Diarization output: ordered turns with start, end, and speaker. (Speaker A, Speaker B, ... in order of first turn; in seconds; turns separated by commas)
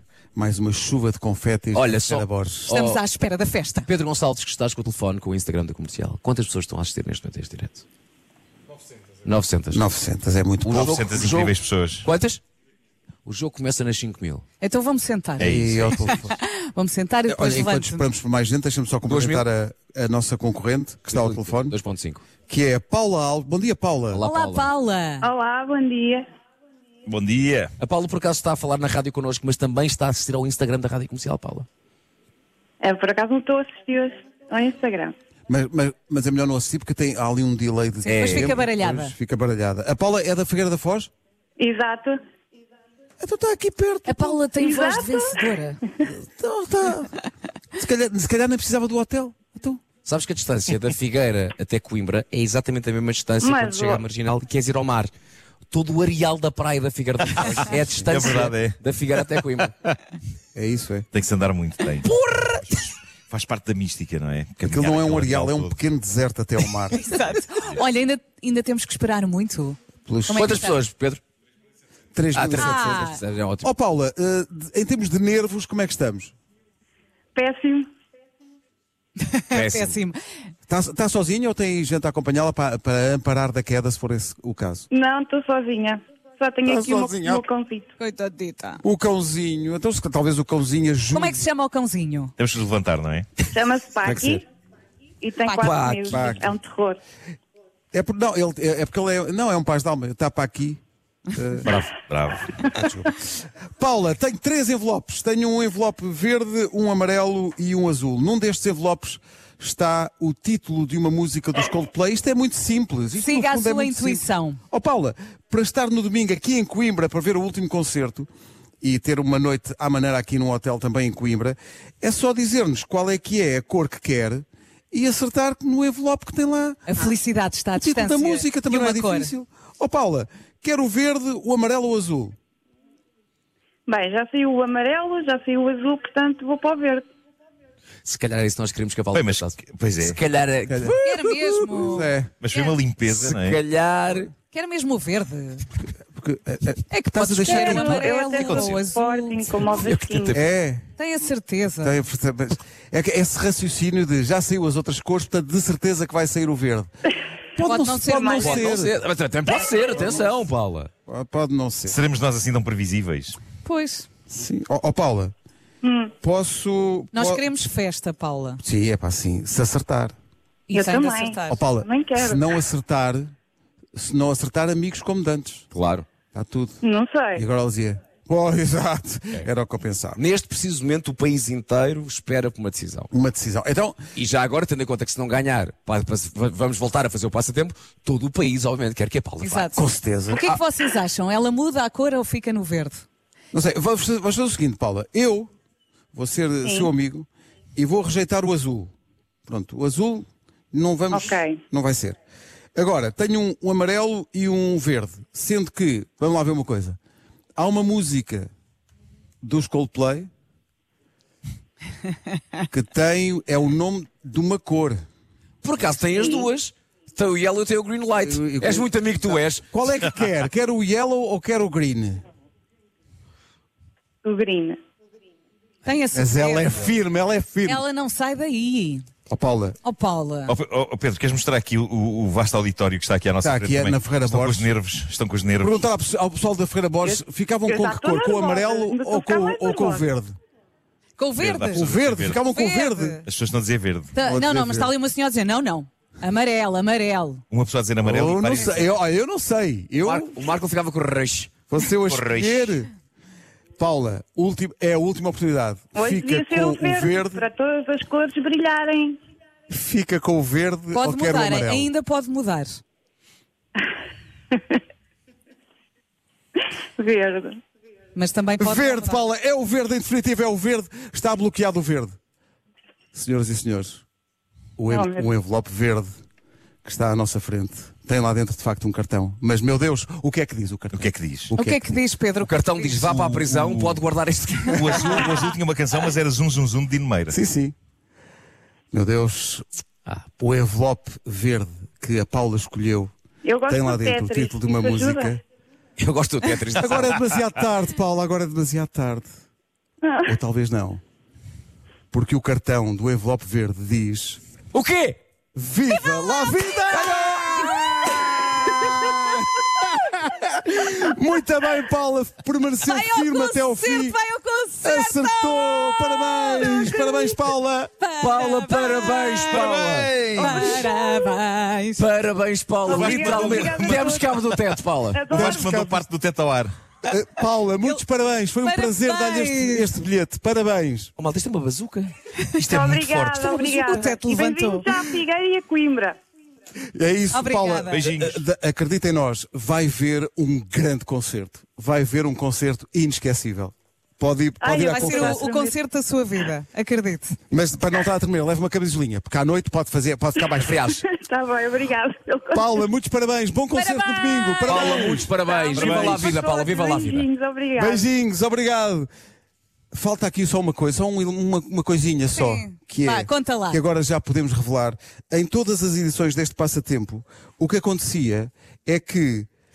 Speaker A: 0.3-2.7, Speaker B: 1.7-3.0, Speaker C: 2.7-3.9, Speaker B: 3.8-7.8, Speaker B: 9.2-9.9, Speaker A: 9.7-11.0, Speaker B: 10.7-12.4, Speaker D: 10.8-12.1, Speaker B: 13.2-14.4, Speaker C: 14.6-18.0, Speaker D: 15.4-16.0, Speaker A: 15.4-16.4, Speaker A: 17.3-21.8, Speaker B: 19.0-19.5, Speaker B: 21.1-22.2, Speaker A: 22.5-24.2, Speaker B: 24.1-24.7, Speaker C: 24.2-25.3, Speaker E: 25.2-26.3, Speaker D: 27.1-27.7, Speaker B: 27.8-31.7, Speaker E: 32.8-35.1, Speaker A: 35.5-41.1, Speaker C: 38.1-39.1, Speaker B: 38.1-38.6, Speaker E: 41.6-42.2, Speaker A: 43.2-44.4, Speaker C: 44.1-45.8, Speaker E: 44.6-45.5, Speaker A: 46.0-47.2, Speaker A: 47.8-49.8, Speaker B: 50.0-55.1, Speaker E: 53.4-54.0, Speaker B: 55.7-59.8, Speaker D: 58.0-58.8, Speaker A: 60.5-61.1, Speaker D: 61.1-62.1, Speaker B: 62.0-62.8, Speaker D: 63.3-65.8, Speaker A: 64.7-67.0, Speaker C: 67.0-70.8, Speaker A: 70.1-70.5, Speaker B: 70.3-71.2, Speaker A: 72.2-73.0, Speaker B: 72.3-73.7, Speaker C: 72.6-73.2, Speaker A: 73.6-76.3, Speaker E: 77.3-77.9, Speaker C: 79.2-80.2, Speaker B: 79.5-80.0, Speaker A: 80.7-84.9, Speaker E: 84.9-87.9, Speaker A: 86.7-87.4, Speaker C: 88.0-88.8, Speaker A: 88.8-91.4, Speaker C: 91.1-92.3, Speaker D: 92.4-93.3, Speaker E: 93.5-94.4, Speaker B: 94.0-94.4, Speaker E: 95.2-97.0, Speaker C: 95.5-96.2, Speaker B: 95.6-96.4, Speaker A: 96.1-96.5, Speaker A: 97.9-100.8, Speaker A: 101.3-101.7, Speaker D: 101.7-102.6, Speaker A: 102.7-103.2, Speaker A: 103.8-118.3, Speaker C: 113.1-114.6, Speaker A: 118.8-127.1, Speaker C: 126.9-129.3, Speaker A: 127.8-132.3, Speaker E: 133.9-137.0, Speaker B: 138.1-141.8, Speaker D: 139.1-140.2, Speaker A: 140.7-141.0, Speaker C: 141.0-142.7, Speaker A: 141.7-142.3, Speaker D: 142.4-143.6, Speaker B: 143.1-144.3, Speaker C: 144.5-145.7, Speaker A: 146.1-148.1, Speaker C: 146.9-149.5, Speaker E: 147.4-150.4, Speaker B: 149.7-150.4, Speaker A: 150.3-150.9, Speaker C: 151.0-151.9, Speaker A: 151.8-156.9, Speaker A: 157.6-159.0, Speaker C: 157.6-158.7, Speaker B: 158.4-160.9, Speaker A: 159.8-160.3, Speaker A: 161.1-162.0, Speaker D: 161.9-163.4, Speaker C: 163.6-164.1, Speaker A: 164.3-165.3, Speaker E: 165.8-166.1, Speaker A: 166.2-167.5, Speaker C: 167.1-168.6, Speaker A: 168.6-170.1, Speaker C: 170.7-171.6, Speaker E: 170.7-172.4, Speaker A: 171.5-173.3, Speaker A: 173.9-175.7, Speaker B: 175.7-176.1, Speaker A: 176.3-176.8, Speaker E: 176.8-177.4, Speaker A: 177.3-180.2, Speaker B: 180.2-183.1, Speaker A: 183.1-184.0, Speaker B: 184.2-189.7, Speaker C: 189.4-189.8, Speaker A: 189.7-190.6, Speaker C: 190.3-193.0, Speaker A: 193.5-195.5, Speaker A: 196.1-198.9, Speaker E: 196.6-196.9, Speaker A: 199.5-202.2, Speaker E: 201.1-201.6, Speaker A: 202.8-207.0, Speaker A: 207.6-208.5, Speaker A: 209.4-210.3, Speaker A: 212.7-215.0, Speaker B: 215.6-219.6, Speaker A: 218.2-222.2, Speaker E: 224.2-224.8, Speaker C: 225.8-226.9, Speaker A: 226.1-227.8, Speaker C: 227.7-229.1, Speaker A: 229.3-229.8, Speaker C: 229.8-230.6, Speaker D: 230.5-235.8, Speaker A: 233.4-234.7, Speaker A: 235.6-240.3, Speaker E: 237.0-240.1, Speaker C: 241.2-241.9, Speaker D: 241.4-242.4, Speaker A: 241.8-243.2, Speaker C: 242.5-243.2, Speaker D: 243.2-244.1, Speaker C: 244.1-247.4, Speaker A: 244.2-244.9, Speaker D: 247.5-249.0, Speaker A: 248.0-250.4, Speaker B: 250.0-252.8, Speaker A: 251.7-252.9, Speaker A: 253.8-257.4, Speaker E: 255.9-259.2, Speaker A: 259.7-261.9, Speaker C: 260.9-262.8, Speaker E: 264.5-264.8, Speaker E: 267.0-267.6, Speaker C: 268.1-269.2, Speaker A: 268.6-272.2, Speaker A: 273.1-274.1, Speaker A: 274.8-276.2, Speaker E: 274.9-275.3, Speaker A: 276.9-282.0, Speaker D: 280.9-281.5, Speaker C: 281.6-283.1, Speaker B: 282.4-285.1, Speaker D: 283.0-284.0, Speaker D: 284.7-287.4, Speaker C: 284.9-285.3, Speaker A: 287.3-287.8, Speaker A: 288.9-289.6, Speaker A: 290.4-293.1, Speaker E: 293.4-295.4, Speaker A: 293.7-295.4, Speaker B: 296.0-297.2, Speaker A: 296.8-299.3, Speaker E: 300.0-300.3, Speaker A: 300.2-301.0, Speaker A: 302.1-304.4, Speaker B: 304.7-305.2, Speaker A: 305.6-314.2, Speaker C: 306.0-308.4, Speaker B: 307.1-308.1, Speaker C: 312.9-317.4, Speaker A: 314.8-317.9, Speaker C: 318.0-319.7, Speaker B: 318.2-320.4, Speaker D: 319.5-320.9, Speaker A: 320.2-320.8, Speaker C: 320.4-322.1, Speaker B: 322.0-325.2, Speaker E: 322.9-324.4, Speaker D: 322.9-324.6, Speaker E: 325.1-325.7, Speaker D: 325.3-326.7, Speaker A: 325.3-326.0, Speaker A: 327.1-331.1, Speaker C: 328.6-330.0, Speaker B: 331.2-332.1, Speaker E: 332.6-336.2, Speaker D: 332.6-333.4, Speaker B: 333.4-334.1, Speaker C: 333.4-334.9, Speaker A: 336.9-345.5, Speaker C: 337.3-338.0, Speaker D: 337.9-338.4, Speaker E: 344.6-345.8, Speaker C: 344.9-347.4, Speaker A: 347.5-350.9, Speaker B: 350.6-351.0, Speaker E: 351.1-352.8, Speaker A: 352.5-356.3, Speaker C: 353.7-354.8, Speaker B: 354.6-357.3, Speaker E: 354.7-358.1, Speaker A: 357.8-359.1, Speaker A: 359.9-369.5, Speaker C: 362.3-363.8